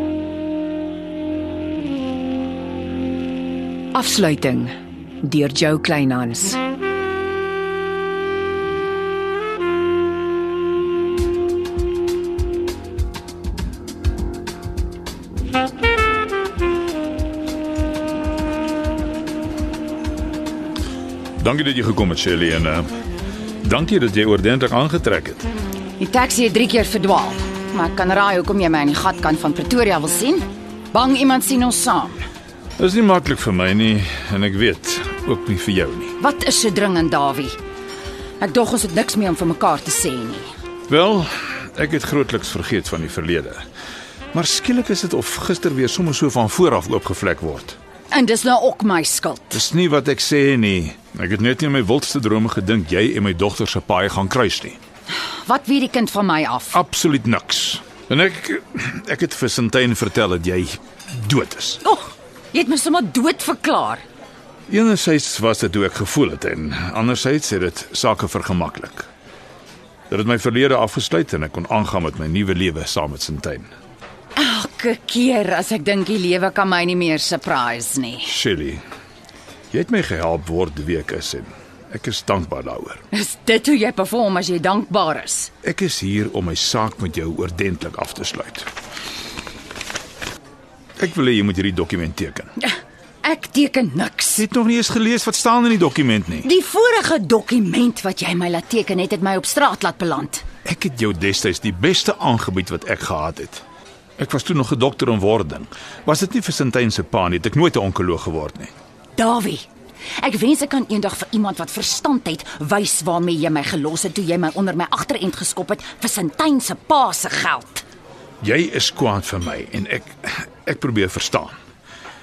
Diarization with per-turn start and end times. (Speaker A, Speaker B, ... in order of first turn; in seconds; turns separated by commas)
Speaker A: 3.9-6.6, Speaker B: 21.4-22.9, Speaker B: 23.6-25.5, Speaker C: 26.0-32.3, Speaker B: 32.8-36.1, Speaker C: 36.2-37.6, Speaker C: 38.4-40.5, Speaker B: 40.9-43.6, Speaker B: 44.3-47.8, Speaker C: 48.1-49.6, Speaker B: 49.5-54.8, Speaker C: 55.4-56.8, Speaker B: 56.7-61.8, Speaker C: 61.8-64.0, Speaker B: 64.7-69.1, Speaker B: 70.1-73.7, Speaker C: 74.4-78.3, Speaker B: 78.3-78.8, Speaker B: 79.7-83.0, Speaker C: 83.1-85.5, Speaker B: 85.6-88.7, Speaker B: 91.0-92.5, Speaker C: 92.6-94.4, Speaker B: 94.4-96.5, Speaker C: 96.4-100.4, Speaker B: 100.7-103.6, Speaker B: 104.2-108.7, Speaker C: 109.2-109.7, Speaker C: 110.2-117.8, Speaker B: 118.4-121.5